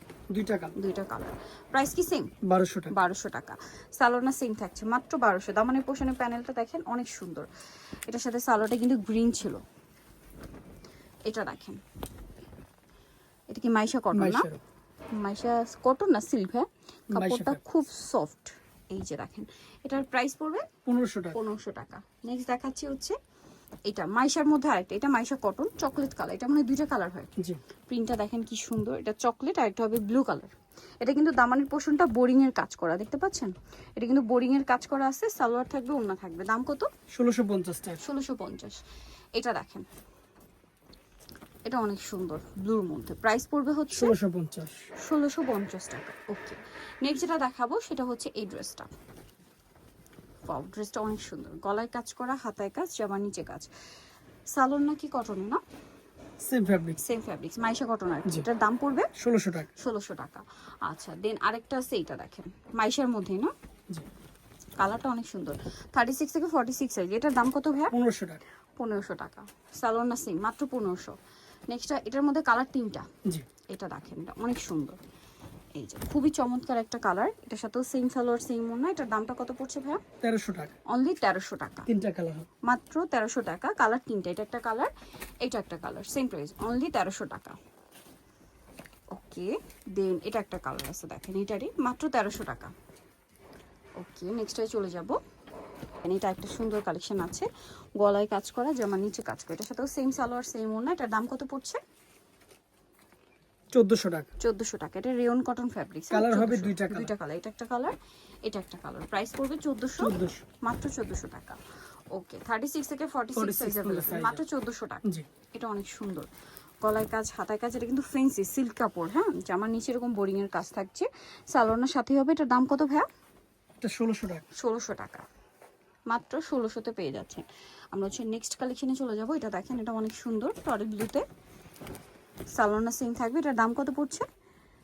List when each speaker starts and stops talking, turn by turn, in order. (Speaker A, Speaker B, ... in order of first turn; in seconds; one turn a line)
Speaker A: 0.3-0.7
Speaker B: 0.8-2.3
Speaker A: 2.4-2.9
Speaker B: 2.9-7.5
Speaker B: 8.1-9.6
Speaker B: 11.3-11.8
Speaker B: 13.5-14.5
Speaker A: 14.1-14.6
Speaker B: 15.1-20.7
Speaker A: 17.1-17.6
Speaker A: 20.9-21.4
Speaker B: 21.3-23.2
Speaker B: 23.9-27.3
Speaker B: 27.9-36.9
Speaker A: 37.1-38.0
Speaker B: 38.0-38.8
Speaker B: 39.4-39.9
Speaker B: 41.7-44.1
Speaker A: 43.9-44.9
Speaker B: 45.0-48.9
Speaker B: 50.5-53.7
Speaker B: 54.5-55.6
Speaker A: 56.4-57.0
Speaker B: 57.0-59.1
Speaker A: 59.2-59.7
Speaker B: 59.8-63.5
Speaker B: 64.8-67.9
Speaker A: 67.9-68.4
Speaker B: 68.8-71.2
Speaker B: 71.7-73.1
Speaker B: 73.7-75.0
Speaker B: 75.8-80.0
Speaker A: 80.2-80.7
Speaker B: 80.9-81.9
Speaker A: 81.9-82.5
Speaker B: 82.7-84.9
Speaker B: 85.4-87.6
Speaker B: 89.1-92.7
Speaker B: 94.0-95.2
Speaker B: 96.0-101.8
Speaker A: 103.7-104.3
Speaker B: 104.4-111.6
Speaker A: 106.1-107.1
Speaker A: 110.0-110.5
Speaker B: 112.1-116.3
Speaker A: 113.3-114.4
Speaker B: 116.8-123.1
Speaker A: 123.8-124.5
Speaker B: 124.5-125.2
Speaker B: 126.1-131.2
Speaker B: 132.6-134.3